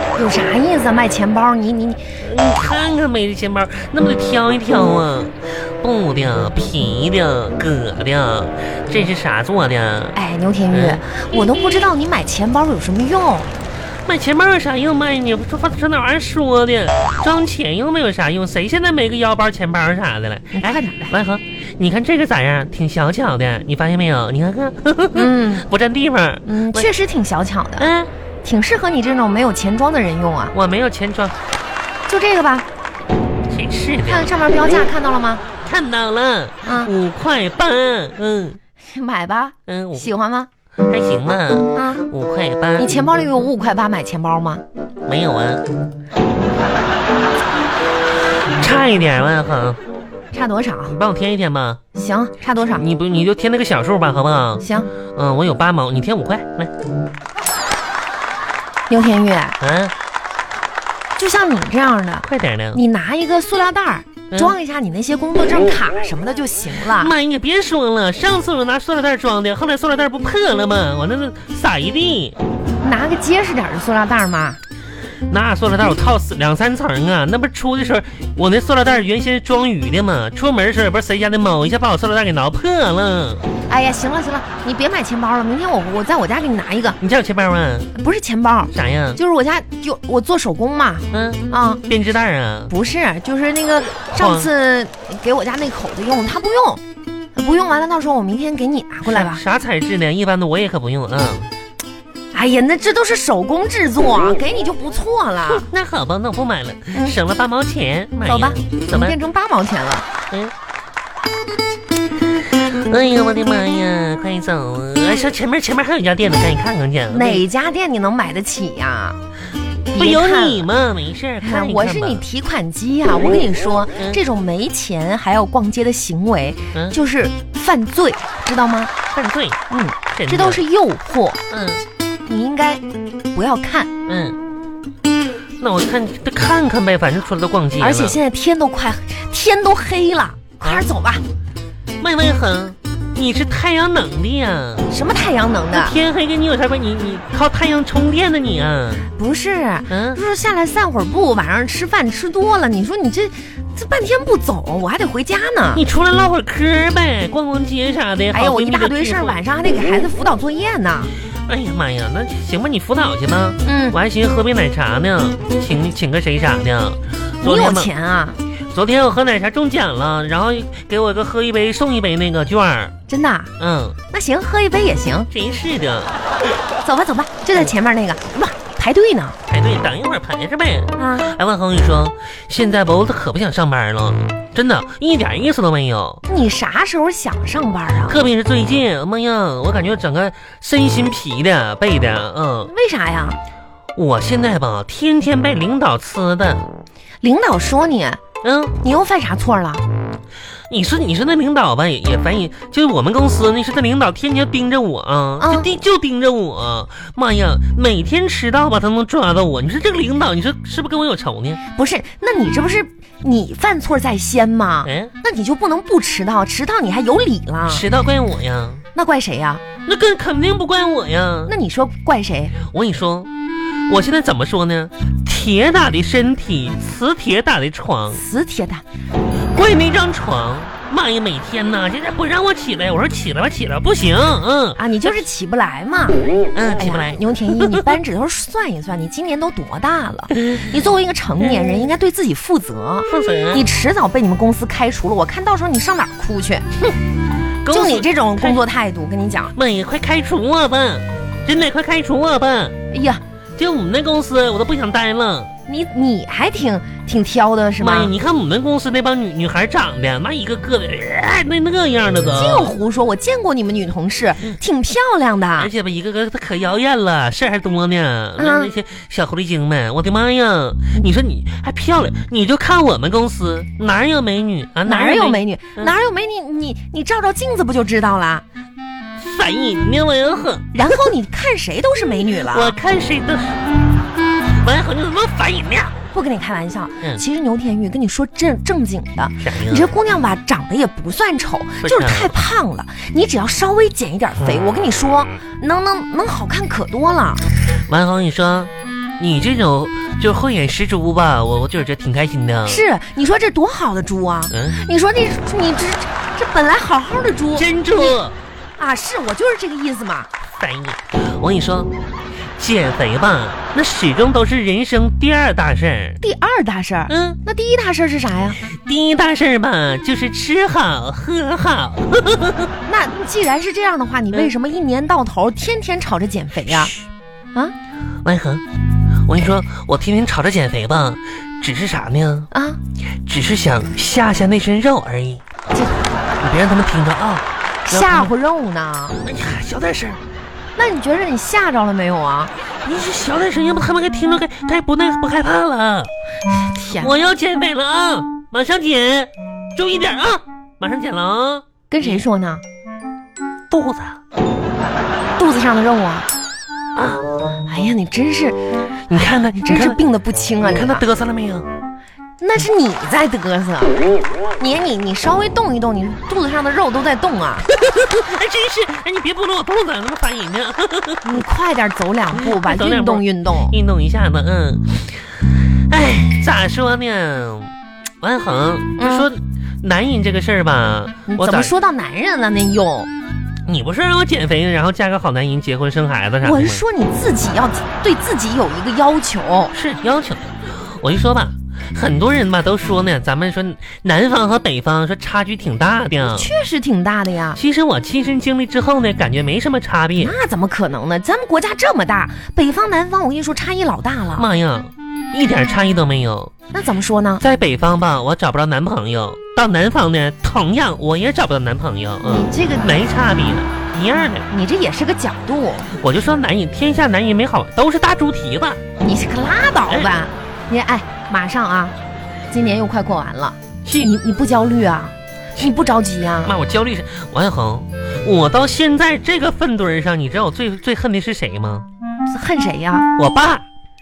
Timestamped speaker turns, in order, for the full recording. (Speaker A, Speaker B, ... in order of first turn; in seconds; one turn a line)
Speaker A: 0.1-2.1
Speaker B: 2.2-10.2
Speaker A: 10.1-13.5
Speaker B: 10.7-11.0
Speaker B: 14.1-26.9
Speaker A: 20.5-21.1
Speaker A: 25.1-25.6
Speaker A: 26.4-27.9
Speaker B: 27.8-28.1
Speaker A: 28.4-30.5
Speaker B: 30.5-31.3
Speaker A: 32.1-32.6
Speaker B: 33.5-34.3
Speaker A: 34.0-35.4
Speaker B: 35.6-38.6
Speaker A: 36.6-36.9
Speaker A: 38.9-40.5
Speaker B: 39.7-40.1
Speaker B: 40.9-42.9
Speaker A: 41.7-42.1
Speaker A: 42.8-44.6
Speaker B: 45.0-45.6
Speaker B: 48.6-49.8
Speaker A: 50.3-51.0
Speaker B: 50.9-51.8
Speaker A: 51.9-52.8
Speaker B: 52.7-56.7
Speaker A: 54.6-54.9
Speaker A: 58.9-59.6
Speaker B: 59.6-59.9
Speaker A: 61.1-67.1
Speaker B: 62.2-62.8
Speaker B: 64.3-64.5
Speaker B: 66.8-72.4
Speaker A: 72.8-74.6
Speaker B: 75.3-83.5
Speaker A: 83.7-87.0
Speaker B: 87.0-87.9
Speaker A: 87.9-91.8
Speaker B: 88.7-89.2
Speaker B: 91.1-92.7
Speaker A: 92.7-96.8
Speaker B: 94.1-94.5
Speaker A: 97.3-99.4
Speaker B: 99.1-101.5
Speaker A: 102.3-105.7
Speaker B: 105.5-109.2
Speaker A: 108.2-110.1
Speaker B: 112.5-117.4
Speaker A: 117.1-119.2
Speaker A: 119.9-120.7
Speaker B: 119.9-122.2
Speaker A: 121.4-128.9
Speaker B: 129.1-129.6
Speaker A: 129.7-131.4
Speaker B: 130.1-130.6
Speaker B: 131.5-131.8
Speaker A: 132.3-133.9
Speaker B: 134.1-134.4
Speaker B: 135.6-138.2
Speaker A: 137.8-141.2
Speaker B: 140.6-140.9
Speaker B: 142.0-144.9
Speaker A: 144.9-145.9
Speaker B: 145.7-149.1
Speaker A: 149.1-155.8
Speaker B: 149.9-150.2
Speaker B: 155.7-159.4
Speaker A: 158.3-161.1
Speaker B: 161.5-167.9
Speaker A: 163.6-164.0
Speaker A: 167.4-168.4
Speaker B: 168.7-172.9
Speaker A: 173.1-173.5
Speaker B: 173.6-174.0
Speaker A: 174.1-175.3
Speaker B: 175.3-176.2
Speaker A: 176.8-179.4
Speaker B: 179.5-186.2
Speaker A: 180.9-181.3
Speaker A: 186.3-188.2
Speaker B: 188.1-192.7
Speaker A: 192.7-193.4
Speaker B: 193.9-196.7
Speaker A: 197.2-198.2
Speaker B: 198.4-198.8
Speaker A: 198.8-199.8
Speaker B: 200.7-211.6
Speaker A: 205.4-205.7
Speaker A: 211.7-217.8
Speaker B: 214.8-215.1
Speaker B: 217.7-218.8
Speaker A: 218.9-219.6
Speaker B: 219.8-221.5
Speaker A: 221.5-222.5
Speaker B: 222.6-223.3
Speaker B: 223.9-228.2
Speaker A: 228.1-228.8
Speaker B: 229.5-234.8
Speaker A: 234.8-236.2
Speaker B: 236.5-238.0
Speaker A: 236.8-246.6
Speaker B: 240.3-240.8
Speaker B: 243.1-243.7
Speaker B: 247.6-248.6
Speaker A: 247.7-249.5
Speaker B: 249.5-252.7
Speaker A: 252.9-253.2
Speaker B: 253.6-255.5
Speaker A: 255.7-258.1
Speaker B: 257.8-262.7
Speaker A: 262.3-265.7
Speaker B: 265.6-275.9
Speaker A: 268.4-268.7
Speaker A: 274.9-278.4
Speaker B: 279.2-281.0
Speaker A: 280.7-282.8
Speaker B: 282.5-283.7
Speaker B: 284.6-286.1
Speaker A: 286.1-297.4
Speaker B: 289.4-289.9
Speaker B: 291.8-292.3
Speaker B: 294.4-294.7
Speaker B: 297.9-302.8
Speaker A: 302.6-308.1
Speaker B: 304.5-304.8
Speaker B: 307.5-308.4
Speaker A: 308.8-310.3
Speaker B: 310.5-311.9
Speaker B: 312.6-316.2
Speaker A: 316.2-318.6
Speaker B: 317.1-317.4
Speaker B: 318.7-322.7
Speaker A: 322.9-326.9
Speaker B: 328.2-328.6
Speaker B: 329.2-332.5
Speaker A: 332.5-332.8
Speaker B: 333.2-335.4
Speaker B: 336.4-338.3
Speaker A: 337.9-339.2
Speaker B: 339.2-340.2
Speaker A: 340.8-342.5
Speaker B: 342.8-346.1
Speaker A: 346.5-347.1
Speaker B: 346.9-352.2
Speaker A: 351.9-352.6
Speaker B: 353.7-354.2
Speaker A: 355.4-356.3
Speaker B: 356.9-357.2
Speaker A: 357.7-361.0
Speaker B: 359.1-360.0
Speaker B: 360.6-361.7
Speaker A: 362.4-364.0
Speaker A: 364.6-367.7
Speaker B: 367.7-371.4
Speaker A: 371.2-373.8
Speaker B: 372.3-381.7
Speaker A: 379.0-379.3
Speaker A: 381.3-383.1
Speaker B: 383.7-386.8
Speaker A: 386.4-389.7
Speaker B: 389.7-396.5
Speaker A: 396.3-397.6
Speaker B: 397.5-400.3
Speaker A: 400.2-404.4
Speaker B: 404.4-406.5
Speaker A: 406.7-407.4
Speaker B: 407.4-414.5
Speaker A: 412.2-412.9
Speaker A: 414.5-415.9
Speaker B: 415.9-418.8
Speaker A: 419.0-421.9
Speaker A: 422.5-426.6
Speaker B: 426.4-431.9
Speaker A: 432.3-433.1
Speaker B: 433.1-433.6